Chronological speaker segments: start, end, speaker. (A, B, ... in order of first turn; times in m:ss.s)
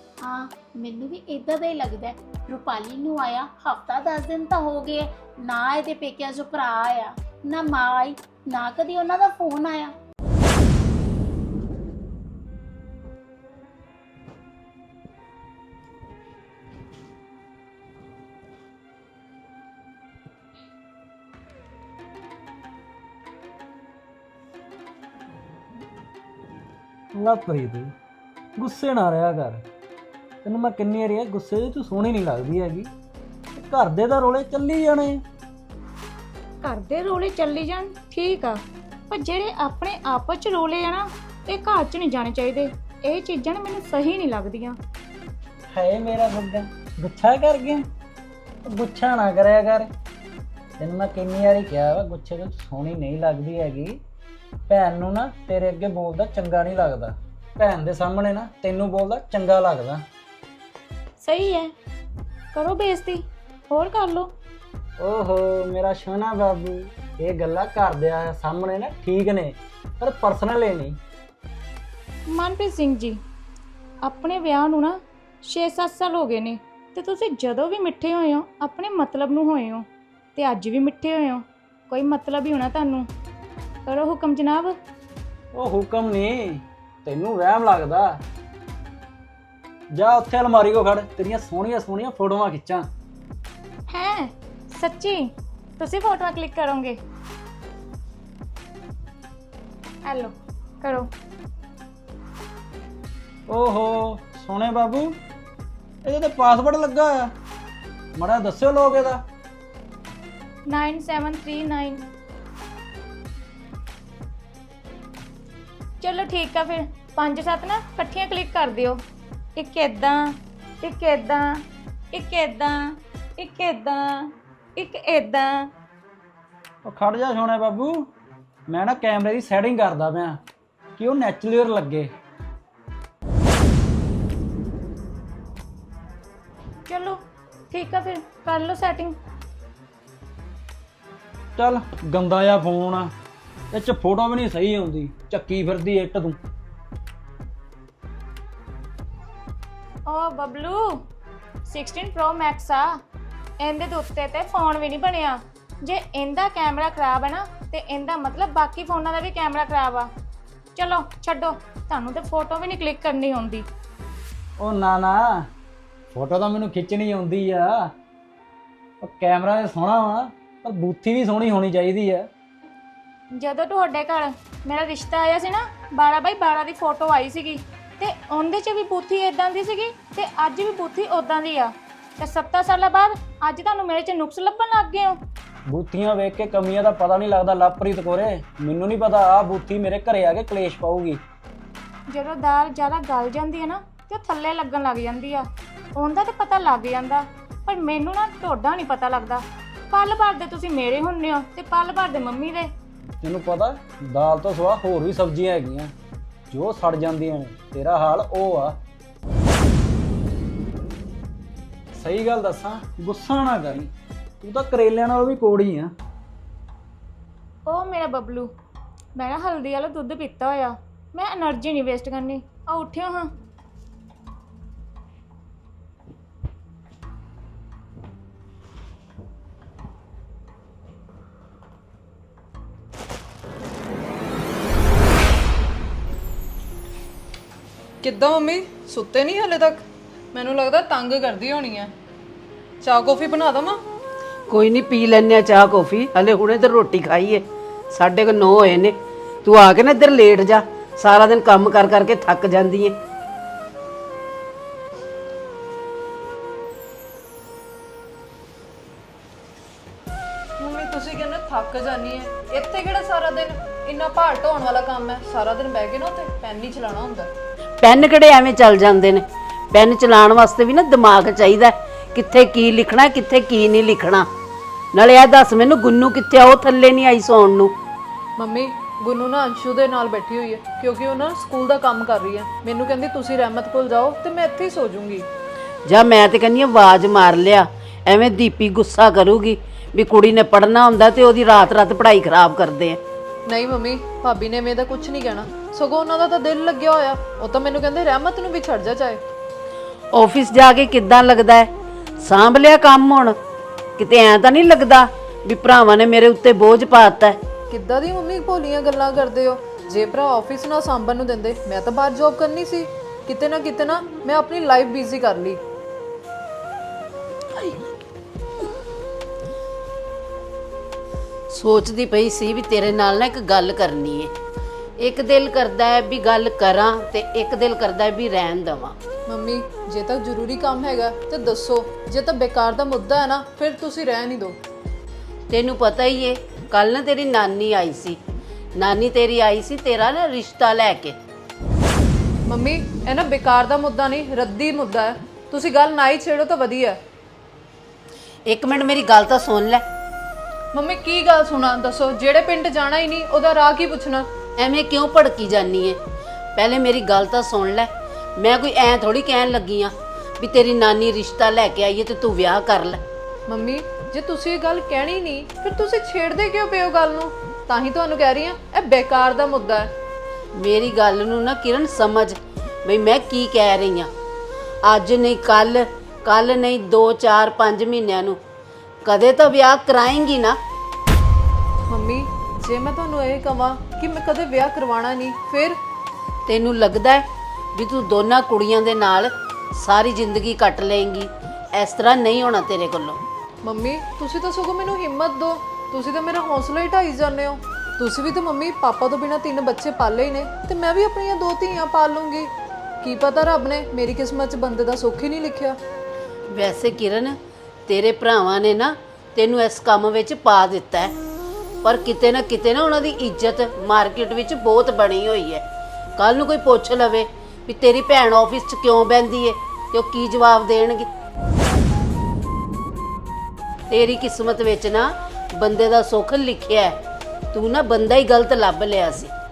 0:00.2-0:09.9 A
0:27.1-0:27.9 B
0:28.6-0:29.6 B
0:30.4-0:32.9 B
0:33.6-0:35.2 B
0:36.6-0:38.6 C
0:39.1-0:44.8 C
0:45.7-0:47.9 B
0:48.7-0:49.9 B
0:50.8-0:54.0 B
0:54.7-1:00.0 B
1:01.2-1:01.7 C
1:02.5-1:04.3 C
1:05.0-1:11.0 B
1:12.3-1:13.2 C
1:14.0-1:23.1 C
1:23.9-1:24.8 C
1:25.5-1:28.2 B
1:29.9-1:32.9 B
1:33.9-1:35.2 C
1:35.8-1:37.0 C
1:40.1-1:41.1 C
1:43.5-1:45.1 B
1:46.0-1:47.3 B
1:48.2-1:49.2 B
1:50.7-1:52.0 C
1:56.0-1:59.0 C
1:59.6-2:00.2 C
2:00.8-2:01.5 C
2:02.1-2:02.8 C
2:03.4-2:05.7 C
2:06.8-2:08.1 B
2:08.7-2:10.4 B
2:11.0-2:12.1 B
2:16.9-2:17.2 C
2:17.7-2:19.2 C
2:21.6-2:23.1 B
2:23.7-2:26.4 B
2:30.1-2:30.9 C
2:31.7-2:32.8 C
2:33.6-2:40.1 C
2:40.8-2:43.6 C
2:44.6-2:45.2 B
2:46.1-2:47.9 B
2:49.0-2:52.3 B
2:53.4-3:05.2 C
3:05.7-3:11.2 B
3:12.1-3:22.7 C
3:23.2-3:25.9 B
3:26.5-3:28.8 B
3:31.9-3:33.9 B
3:34.4-3:35.9 B
3:37.7-3:38.5 C
3:39.2-3:43.3 C
3:58.0-3:59.8 D
4:00.3-4:01.9 D
4:02.8-4:03.8 D
4:04.5-4:13.0 E
4:20.6-4:27.3 D
4:27.8-4:34.3 E
4:34.9-4:37.7 E
4:38.4-4:45.3 D
4:45.9-4:53.0 E
4:53.5-4:59.2 D
5:00.1-5:01.7 E
5:02.2-5:03.4 E
5:04.0-5:07.4 E
5:07.7-5:15.6 D
5:21.5-5:24.3 E
5:25.0-5:29.0 E
5:29.3-5:34.6 D
5:35.5-5:38.2 E
5:38.8-5:41.2 E
5:42.5-5:47.0 D
5:48.5-5:49.8 E
5:50.7-5:54.3 D
5:54.6-5:56.0 E
5:56.6-6:03.0 E
6:03.5-6:09.9 D
6:10.6-6:14.1 E
6:14.8-6:18.4 E
6:19.1-6:20.6 E
6:21.9-6:25.8 D
6:26.5-6:27.2 E
6:27.8-6:33.2 E
6:33.6-6:42.5 D
6:43.0-6:45.8 D
6:46.5-6:51.1 E
6:51.8-6:55.6 E
6:56.2-7:01.1 E
7:03.9-7:07.0 E
7:07.5-7:09.3 E